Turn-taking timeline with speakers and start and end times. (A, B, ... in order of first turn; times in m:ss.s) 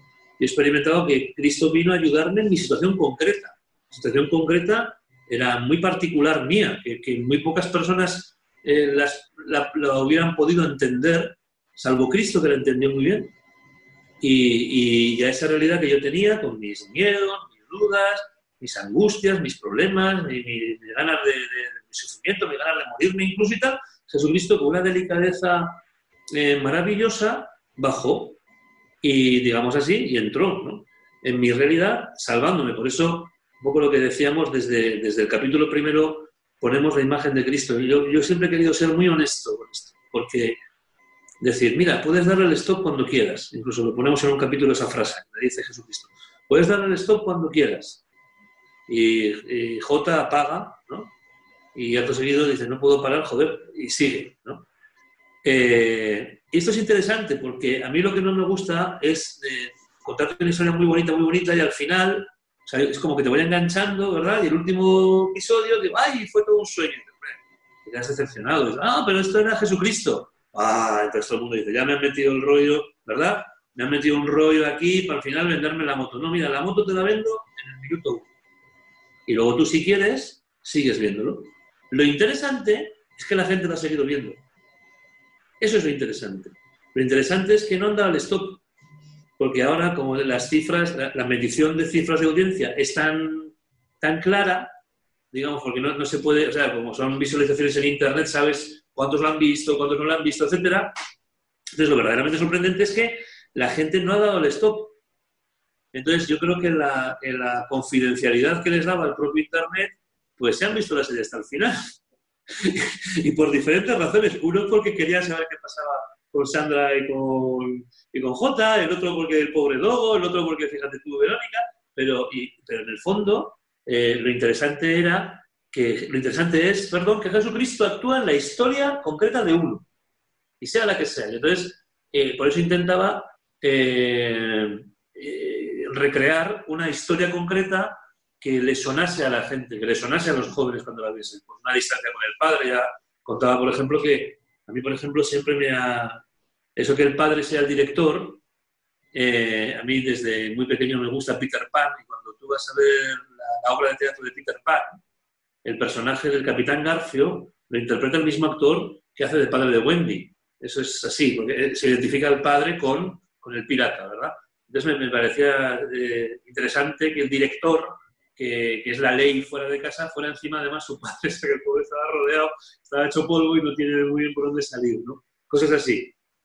0:00.4-0:13.3 A
0:14.2-0:25.8 A
0:26.3-0:28.4 A
0:29.0-0:40.6 A
0:41.4-0:48.0 A
0:48.9-0:51.1 A
0:51.7-0:54.6 A
0:55.4-1:18.3 A
1:19.3-1:24.4 A
1:25.6-1:28.6 A
1:29.4-1:34.7 A
1:35.3-1:40.9 A
1:41.8-1:44.9 A
1:45.9-1:51.8 A
1:52.6-2:09.8 A
2:10.6-2:26.2 A
2:26.8-2:28.4 A
2:29.1-2:35.0 A
2:35.6-2:56.1 A